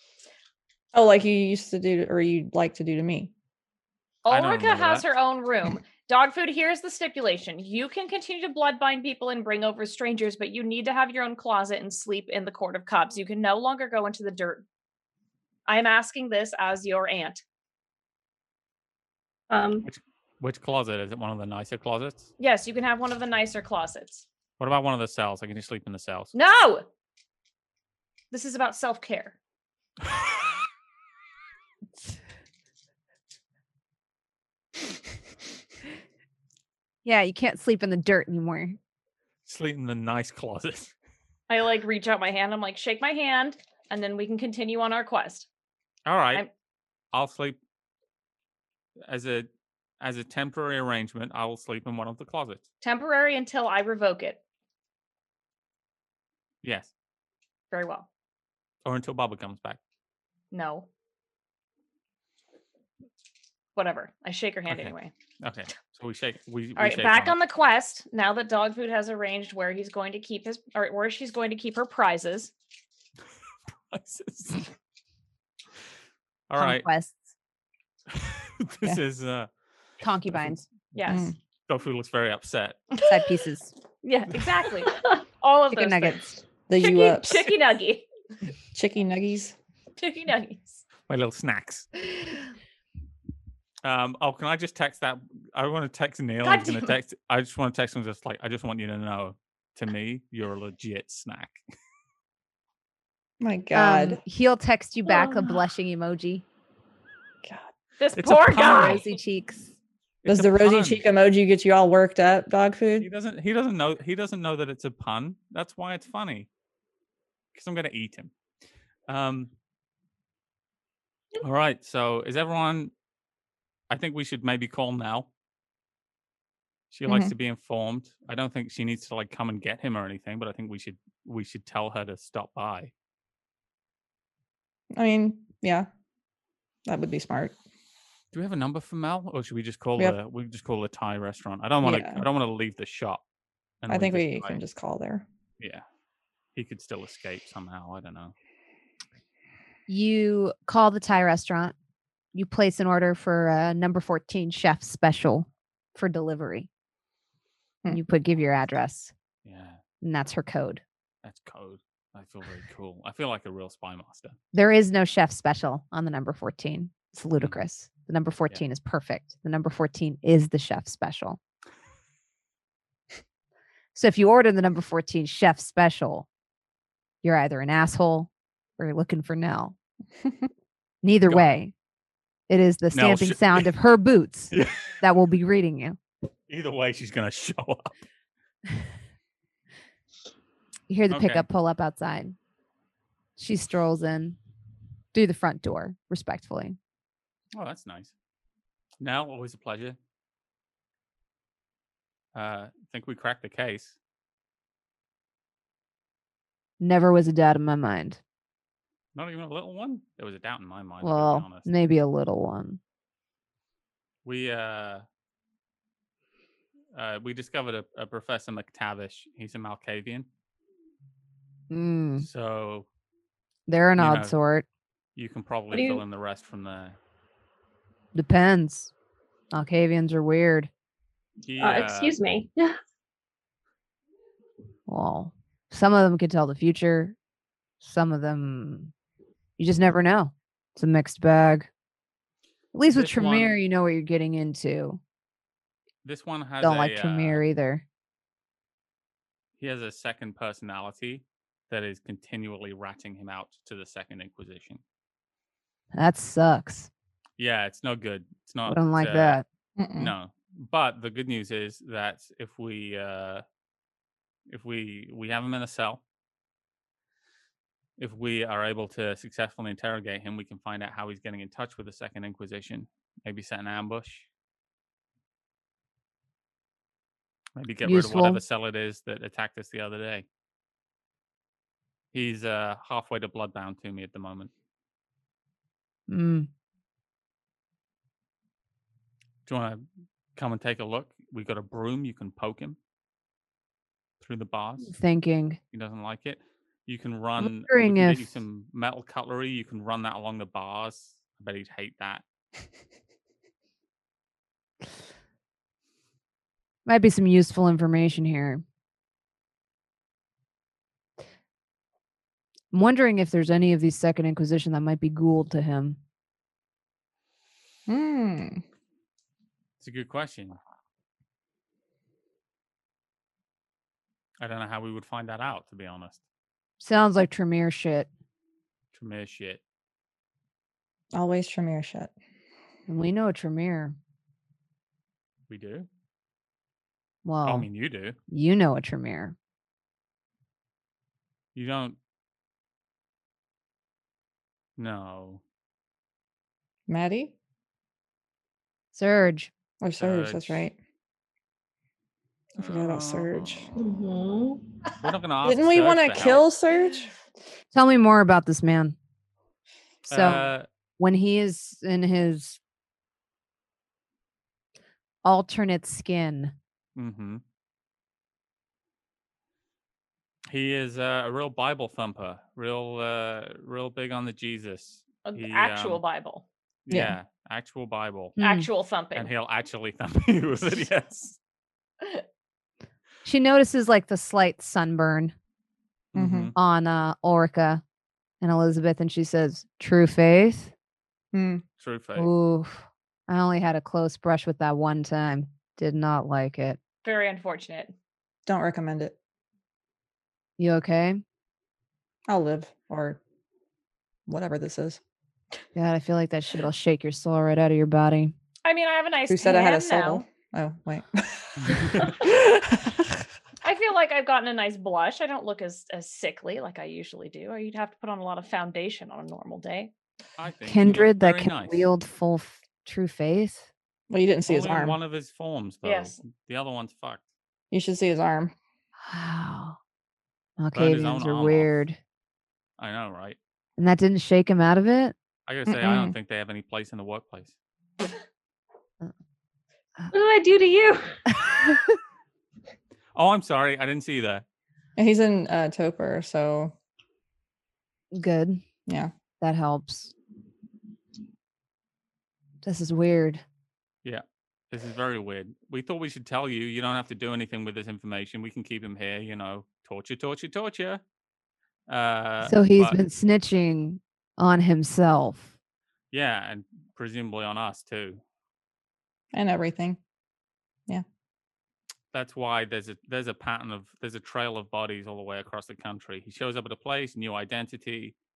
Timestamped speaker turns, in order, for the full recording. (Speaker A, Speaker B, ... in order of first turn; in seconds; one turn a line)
Speaker A: 0.9-3.3
Speaker B: 4.2-14.6
Speaker C: 4.3-5.0
Speaker B: 15.7-17.4
Speaker D: 19.5-19.9
Speaker C: 19.9-22.3
Speaker B: 22.4-24.2
Speaker C: 24.6-26.3
Speaker B: 26.3-26.9
Speaker B: 28.3-29.4
Speaker E: 37.0-38.8
Speaker C: 39.5-40.9
Speaker B: 41.5-45.5
Speaker C: 46.0-46.4
Speaker C: 47.1-47.6
Speaker C: 49.0-49.5
Speaker C: 50.0-52.6
Speaker B: 52.8-54.4
Speaker C: 56.6-56.9
Speaker B: 57.7-58.1
Speaker C: 58.8-59.8
Speaker B: 60.5-60.9
Speaker B: 63.7-65.1
Speaker C: 64.7-67.3
Speaker B: 66.8-72.5
Speaker C: 73.9-74.7
Speaker C: 76.5-76.9
Speaker E: 76.6-77.3
Speaker C: 78.1-79.5
Speaker E: 80.0-80.7
Speaker B: 80.9-81.3
Speaker A: 81.1-81.3
Speaker C: 81.7-82.8
Speaker B: 82.9-83.3
Speaker E: 83.0-83.7
Speaker B: 84.0-88.1
Speaker E: 85.7-86.4
Speaker A: 86.7-87.5
Speaker A: 88.7-89.5
Speaker B: 90.0-90.8
Speaker C: 91.0-91.9
Speaker B: 92.0-92.4
Speaker C: 93.8-101.6
Speaker B: 96.4-97.0
Speaker A: 103.4-104.2
Speaker E: 103.7-106.4
Speaker A: 107.4-107.7
Speaker B: 108.0-109.1
Speaker C: 108.2-109.0
Speaker E: 108.6-109.7
Speaker C: 110.2-111.0
Speaker A: 110.2-113.1
Speaker C: 113.0-116.5
Speaker C: 117.5-118.3
Speaker C: 119.1-119.5
Speaker C: 121.4-122.9
Speaker C: 123.9-125.3
Speaker C: 126.9-132.9
Speaker A: 127.1-127.3
Speaker A: 134.9-135.9
Speaker A: 136.8-137.6
Speaker C: 138.3-143.2
Speaker A: 141.8-142.2
Speaker C: 143.8-144.6
Speaker A: 143.9-145.2
Speaker C: 145.6-145.8
Speaker C: 146.5-148.3
Speaker E: 149.9-151.7
Speaker E: 152.3-156.7
Speaker E: 157.9-159.1
Speaker C: 159.4-159.8
Speaker E: 160.0-160.8
Speaker C: 161.2-164.4
Speaker E: 164.5-171.4
Speaker E: 173.9-176.3
Speaker E: 177.2-179.8
Speaker E: 181.0-181.7
Speaker E: 182.5-186.0
Speaker C: 182.9-183.7
Speaker C: 184.5-185.0
Speaker C: 186.5-187.9
Speaker E: 190.9-192.3
Speaker C: 191.1-191.4
Speaker E: 193.4-194.4
Speaker E: 195.1-196.8
Speaker C: 197.5-198.1
Speaker C: 199.0-200.0
Speaker C: 202.3-204.0
Speaker E: 206.8-208.2
Speaker C: 209.1-211.7
Speaker E: 211.0-212.8
Speaker C: 214.2-215.0
Speaker C: 216.9-220.3
Speaker E: 221.7-222.3
Speaker C: 222.2-222.9
Speaker E: 223.7-224.7
Speaker C: 224.0-224.3
Speaker C: 225.2-227.0
Speaker D: 225.7-226.0
Speaker E: 228.1-228.9
Speaker E: 229.5-230.7
Speaker C: 231.4-232.2
Speaker D: 231.6-232.8
Speaker E: 234.9-237.2
Speaker E: 237.8-238.9
Speaker E: 239.6-241.7
Speaker E: 242.7-245.0
Speaker C: 242.9-243.5
Speaker C: 246.0-247.4
Speaker E: 246.6-247.8
Speaker C: 249.6-254.8
Speaker E: 255.9-256.9
Speaker C: 257.4-259.4
Speaker E: 258.7-259.4
Speaker A: 259.8-260.1
Speaker C: 260.0-263.4
Speaker C: 264.5-266.0
Speaker C: 268.0-274.3
Speaker C: 277.6-280.2
Speaker E: 277.8-278.4
Speaker C: 282.1-284.5
Speaker E: 286.1-286.5
Speaker C: 289.4-289.8
Speaker C: 290.4-292.8
Speaker C: 294.2-294.9
Speaker E: 294.9-295.6
Speaker C: 295.7-302.2
Speaker E: 297.4-298.4
Speaker E: 306.9-308.6
Speaker E: 312.7-316.0
Speaker A: 317.9-318.6
Speaker C: 319.8-320.6
Speaker C: 324.4-326.2
Speaker E: 326.8-328.1
Speaker C: 328.9-329.6
Speaker A: 331.1-332.1
Speaker E: 332.9-333.9
Speaker C: 335.5-335.9
Speaker E: 337.2-337.7
Speaker C: 337.4-338.2
Speaker E: 338.3-339.3
Speaker C: 341.5-342.0
Speaker C: 344.8-345.4
Speaker A: 346.9-347.3
Speaker E: 348.9-349.5
Speaker A: 349.8-350.8
Speaker C: 350.0-350.6
Speaker A: 352.5-353.7
Speaker C: 352.6-353.7
Speaker D: 353.8-354.6
Speaker C: 355.0-356.4
Speaker A: 355.4-357.1
Speaker E: 357.7-358.9
Speaker C: 360.1-360.7
Speaker E: 360.1-360.5
Speaker E: 361.0-362.6
Speaker E: 365.2-366.5
Speaker C: 366.9-367.4
Speaker C: 370.5-376.0
Speaker B: 375.2-376.4
Speaker C: 376.9-378.4
Speaker E: 378.4-378.7
Speaker B: 378.4-379.3
Speaker C: 379.1-381.4
Speaker E: 383.2-385.3
Speaker C: 386.1-386.5
Speaker A: 386.1-386.5
Speaker E: 386.5-387.8
Speaker E: 388.4-390.7
Speaker A: 391.3-391.6
Speaker C: 391.8-392.3
Speaker E: 392.1-396.8
Speaker B: 397.0-397.9
Speaker A: 398.5-399.1
Speaker E: 400.6-401.2
Speaker A: 402.3-403.2
Speaker A: 404.3-405.0
Speaker E: 405.7-408.3
Speaker B: 408.6-410.2
Speaker A: 409.3-413.1
Speaker C: 411.6-412.2
Speaker B: 413.6-419.9
Speaker C: 420.4-421.9
Speaker E: 420.7-423.7
Speaker A: 424.1-425.0
Speaker C: 424.4-427.2
Speaker B: 425.8-426.2
Speaker A: 427.7-428.5
Speaker E: 429.1-429.8
Speaker E: 430.6-432.0
Speaker C: 430.7-431.8
Speaker C: 432.8-433.4
Speaker E: 433.8-435.1
Speaker C: 435.4-437.5
Speaker A: 435.7-436.1
Speaker D: 440.1-441.4
Speaker C: 443.1-444.4
Speaker A: 445.0-446.7
Speaker E: 448.1-448.6
Speaker A: 448.9-449.1
Speaker E: 449.4-450.1
Speaker E: 452.6-453.4
Speaker C: 454.0-461.0
Speaker C: 461.9-463.0
Speaker E: 462.4-465.5
Speaker C: 466.1-468.2
Speaker A: 469.3-470.0
Speaker C: 472.1-478.1